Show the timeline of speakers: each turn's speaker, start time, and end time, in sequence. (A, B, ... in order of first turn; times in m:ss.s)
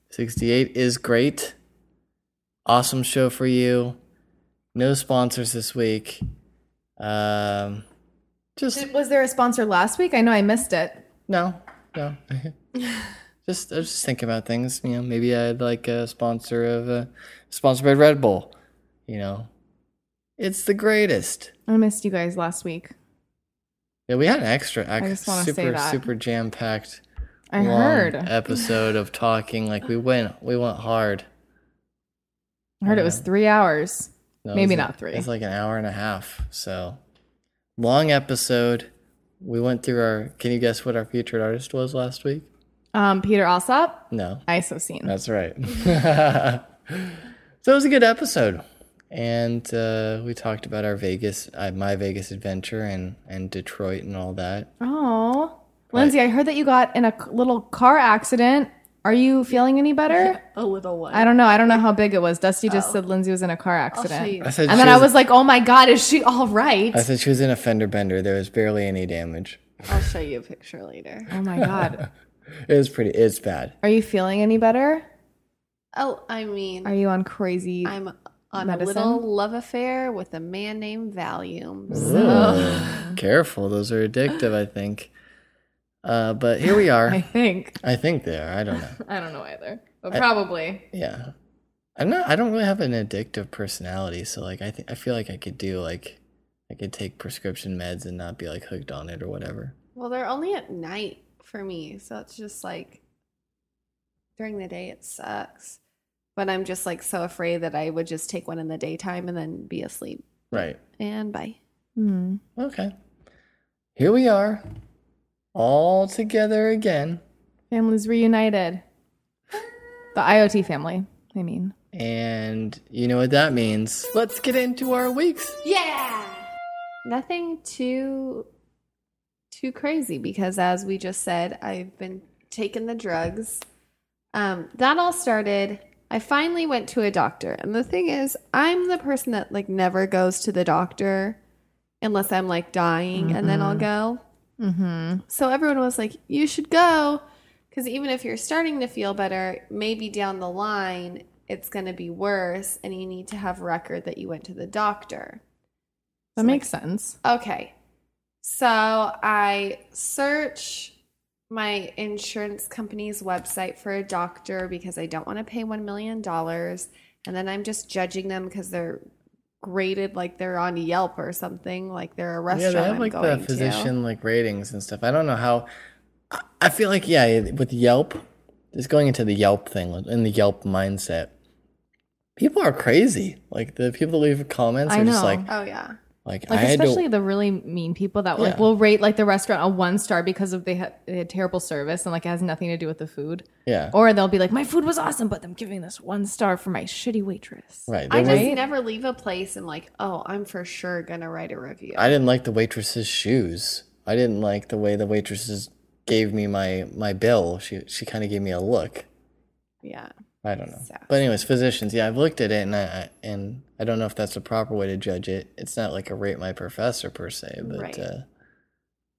0:00.1-0:01.6 A
0:02.7-0:04.0 A
0:04.7-0:06.2 A
0:07.0-0:07.8 A
0:08.6-0:08.9 A
0:08.7-0:11.0 B
0:11.3-0:12.6 A
0:13.4-0:18.5 A
0:19.1-0:19.5 A
0:20.4-0:21.5 A
0:21.7-0:22.9 B
0:24.1-0:27.0 A
0:25.0-0:26.0 B
0:27.5-0:28.3 B
0:27.6-0:31.3 A
0:32.8-0:35.3 B
0:32.9-0:33.2 A
0:34.4-0:37.0 A
0:37.8-0:38.9 A
0:39.4-0:42.5 A
0:42.9-0:45.1 B
0:44.1-0:44.4 A
0:45.0-0:54.7 A
0:54.8-1:00.4 B
1:00.1-1:01.8 C
1:01.1-1:07.1 B
1:02.7-1:03.0 C
1:03.9-1:05.0 C
1:04.4-1:05.1 A
1:06.9-1:10.0 A
1:09.9-1:11.3 C
1:11.3-1:12.0 B
1:11.6-1:12.0 A
1:12.7-1:13.7 A
1:13.8-1:15.1 B
1:15.9-1:16.9 C
1:16.8-1:18.0 B
1:17.8-1:23.0 C
1:18.6-1:19.2 B
1:21.9-1:23.2 B
1:21.9-1:25.1 A
1:26.0-1:27.3 A
1:27.0-1:27.8 B
1:27.8-1:29.0 A
1:28.7-1:30.8 B
1:30.9-1:31.3 A
1:32.0-1:39.8 A
1:40.0-1:43.0 C
1:44.4-1:45.8 C
1:46.4-1:51.6 C
1:50.5-1:50.8 A
1:52.0-1:52.4 B
1:52.6-1:52.9 A
1:54.0-1:54.6 A
1:55.6-1:57.2 A
1:57.7-1:58.8 B
2:00.2-2:01.7 B
2:01.9-2:05.6 A
2:05.6-2:06.4 C
2:07.0-2:08.5 C
2:09.5-2:13.6 C
2:14.3-2:21.4 C
2:22.0-2:24.2 C
2:23.2-2:23.9 B
2:24.6-2:25.2 B
2:25.3-2:35.4 C
2:36.4-2:36.7 C
2:36.4-2:37.2 B
2:37.2-2:37.7 C
2:38.4-2:40.9 C
2:41.5-2:49.0 C
2:49.6-2:53.9 C
2:52.5-2:55.7 A
2:56.3-3:01.3 A
3:02.4-3:05.5 A
3:04.9-3:05.5 B
3:05.5-3:06.0 C
3:06.2-3:07.0 A
3:06.5-3:18.6 B
3:08.4-3:08.7 A
3:13.7-3:13.9 A
3:17.9-3:18.5 A
3:18.1-3:22.1 C
3:22.0-3:29.1 A
3:29.8-3:30.1 C
3:30.4-3:38.3 A
3:37.6-3:38.0 C